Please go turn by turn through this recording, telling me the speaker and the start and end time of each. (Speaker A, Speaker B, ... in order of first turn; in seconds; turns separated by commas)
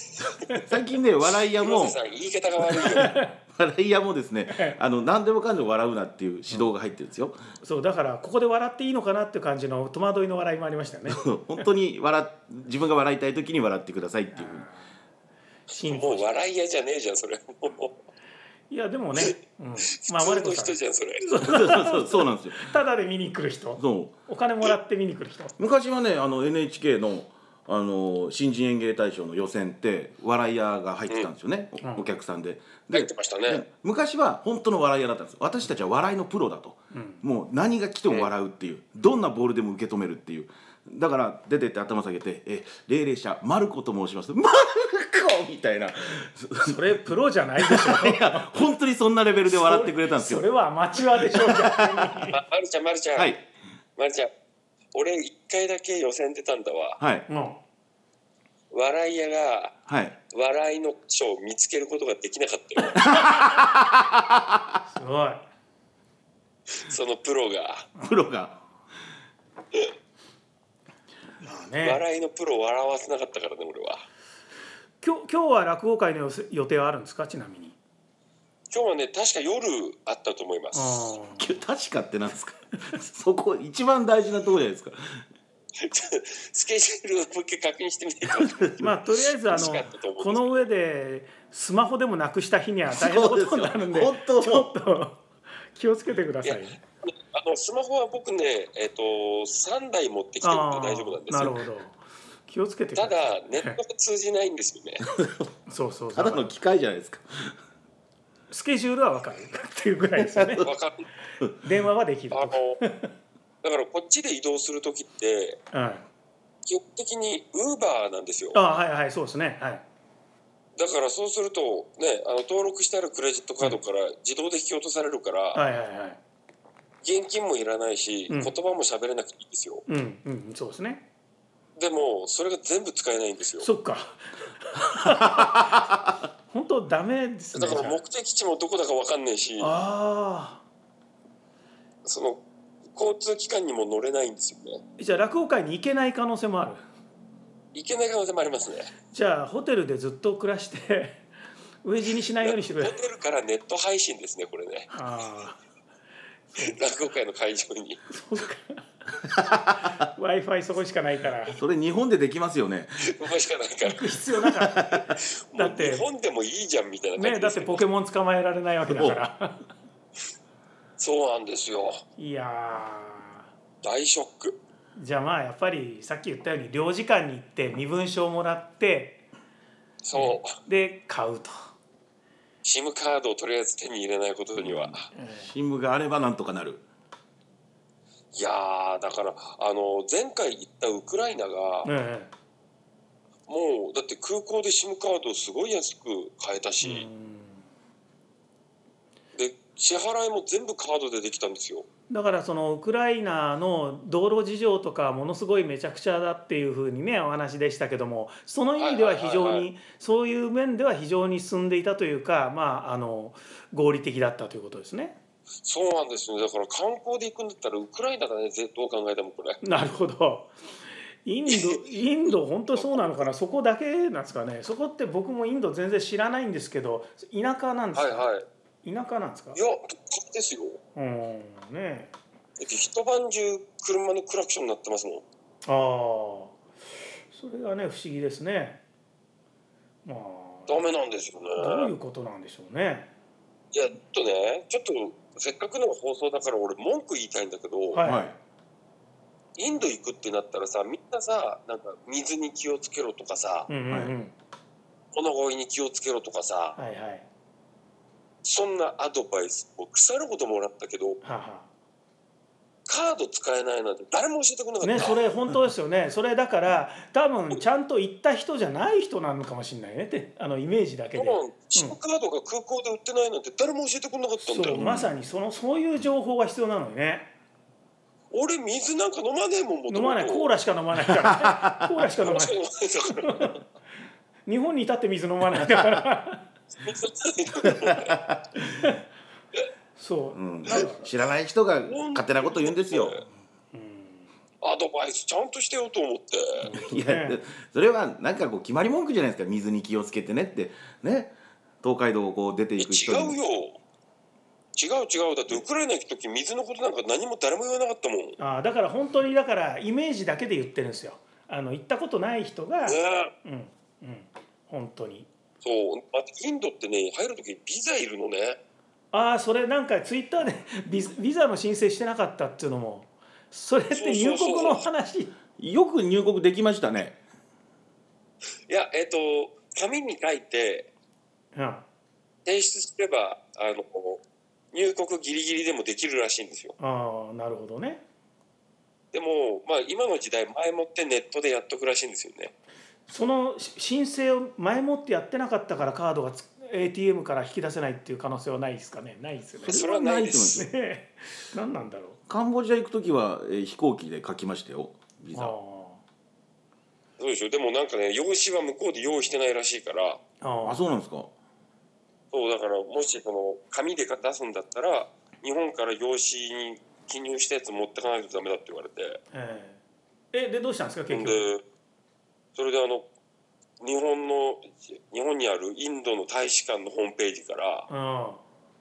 Speaker A: 0.6-2.0, Speaker B: 1.6-3.2, Speaker C: 2.8-3.3, Speaker A: 3.5-7.4, Speaker C: 4.5-4.8, Speaker C: 7.6-11.6, Speaker A: 11.1-14.7, Speaker C: 14.3-14.8, Speaker C: 15.7-16.2, Speaker B: 15.8-18.0, Speaker C: 18.7-25.5, Speaker B: 19.9-21.4, Speaker A: 21.4-22.7, Speaker A: 23.8-24.1, Speaker A: 25.6-47.0, Speaker C: 31.8-32.1, Speaker B: 32.9-33.6, Speaker C: 36.9-37.2, Speaker C: 46.6-48.5, Speaker A: 47.6-50.5, Speaker C: 49.5-52.4, Speaker A: 51.2-52.1, Speaker B: 52.3-53.3, Speaker A: 53.1-53.4, Speaker B: 54.0-54.3, Speaker B: 54.9-57.0, Speaker A: 57.0-57.3, Speaker C: 57.3-57.6, Speaker B: 58.7-59.8, Speaker A: 59.9-60.2, Speaker B: 60.3-63.0, Speaker A: 63.0-64.8, Speaker C: 64.9-65.5, Speaker B: 66.7-67.9, Speaker A: 68.0-68.6, Speaker C: 71.4-72.0, Speaker B: 71.8-74.0, Speaker C: 75.0-77.8, Speaker B: 78.7-81.0, Speaker C: 80.7-81.5, Speaker A: 81.4-85.2, Speaker B: 85.8-88.8, Speaker A: 88.3-88.9, Speaker C: 88.8-96.8, Speaker B: 89.5-90.7, Speaker A: 92.9-94.7, Speaker B: 96.4-101.6, Speaker C: 100.4-103.8, Speaker B: 103.0-105.0, Speaker A: 105.0-105.5, Speaker C: 105.7-106.5, Speaker A: 106.1-107.5, Speaker C: 108.5-110.7, Speaker A: 110.2-110.7, Speaker B: 110.6-111.1, Speaker C: 111.6-113.1, Speaker B: 112.3-112.8, Speaker B: 113.6-115.6, Speaker C: 115.7-116.0, Speaker B: 116.7-118.6, Speaker C: 118.5-119.8, Speaker B: 120.8-125.6, Speaker C: 125.5-126.2, Speaker B: 127.0-129.8, Speaker C: 129.9-131.1, Speaker B: 131.8-133.7, Speaker C: 133.6-135.9, Speaker A: 135.2-136.0, Speaker C: 136.5-138.0, Speaker B: 137.5-139.8, Speaker C: 139.6-140.6, Speaker B: 142.0-142.4, Speaker B: 142.9-144.8, Speaker C: 145.0-146.8, Speaker B: 147.7-148.9, Speaker C: 149.1-151.2, Speaker C: 151.8-152.9, Speaker B: 152.4-154.9, Speaker C: 154.9-155.6, Speaker B: 156.6-158.0, Speaker C: 158.1-161.6, Speaker A: 159.3-160.1, Speaker A: 161.6-163.1, Speaker B: 163.0-164.1, Speaker C: 163.8-166.1, Speaker A: 164.5-165.2, Speaker B: 165.5-167.8, Speaker C: 167.2-169.7, Speaker A: 168.9-169.2, Speaker B: 171.0-172.0, Speaker C: 172.2-173.5, Speaker B: 173.8-174.6, Speaker C: 174.9-179.2, Speaker B: 180.0-180.5, Speaker C: 180.1-181.5, Speaker B: 182.6-185.1, Speaker A: 184.6-186.8, Speaker C: 185.1-185.5, Speaker B: 188.3-191.9, Speaker C: 191.8-192.3, Speaker B: 193.5-197.1, Speaker C: 196.8-197.7, Speaker B: 199.3-201.9, Speaker C: 202.1-215.2, Speaker B: 208.8-209.7, Speaker B: 215.6-219.6, Speaker C: 219.6-220.5, Speaker C: 221.2-228.3, Speaker B: 221.5-222.0, Speaker B: 222.7-223.3, Speaker B: 227.9-228.4, Speaker C: 228.8-229.6, Speaker B: 229.5-230.8, Speaker C: 230.9-232.1, Speaker B: 232.6-235.2, Speaker C: 235.7-236.5, Speaker C: 237.3-238.8, Speaker C: 240.0-240.8, Speaker B: 240.7-241.9, Speaker C: 241.6-243.1, Speaker B: 243.7-248.0, Speaker C: 247.9-248.3, Speaker A: 248.0-248.3, Speaker B: 249.6-253.7, Speaker C: 253.7-254.3, Speaker B: 255.1-256.8, Speaker C: 256.8-257.2, Speaker B: 258.4-261.2, Speaker C: 261.2-261.7, Speaker B: 262.9-265.2, Speaker C: 264.8-272.0, Speaker B: 271.1-274.9, Speaker C: 274.4-277.3, Speaker A: 274.7-275.1, Speaker B: 278.3-280.5, Speaker C: 279.9-282.6, Speaker A: 281.1-282.0, Speaker B: 282.2-283.5, Speaker C: 283.1-283.6, Speaker C: 284.5-286.5, Speaker B: 286.8-288.2, Speaker A: 287.6-288.4, Speaker C: 288.8-289.0, Speaker C: 290.0-291.1, Speaker A: 290.3-293.2, Speaker B: 291.9-293.2, Speaker C: 293.7-294.3, Speaker B: 294.6-296.7, Speaker C: 296.6-297.4, Speaker A: 296.8-303.4, Speaker B: 302.8-303.8, Speaker B: 304.8-308.4, Speaker C: 308.4-315.3, Speaker B: 312.9-313.3, Speaker B: 315.6-318.6, Speaker C: 319.1-325.3, Speaker B: 323.9-324.8, Speaker A: 325.6-327.2, Speaker B: 328.7-330.9, Speaker C: 331.5-331.8, Speaker B: 332.4-334.2, Speaker B: 334.7-336.8, Speaker C: 336.8-338.0, Speaker B: 339.1-342.5, Speaker C: 343.1-349.8, Speaker A: 349.6-350.7, Speaker B: 349.7-350.6, Speaker C: 350.5-352.2, Speaker A: 352.3-355.6, Speaker C: 355.3-356.0, Speaker B: 357.2-360.2, Speaker C: 360.4-360.8, Speaker A: 360.6-361.3, Speaker B: 362.3-369.2, Speaker C: 369.3-369.8, Speaker C: 370.3-371.4, Speaker B: 371.1-371.6, Speaker B: 372.5-373.1, Speaker B: 373.8-377.9, Speaker C: 377.9-378.4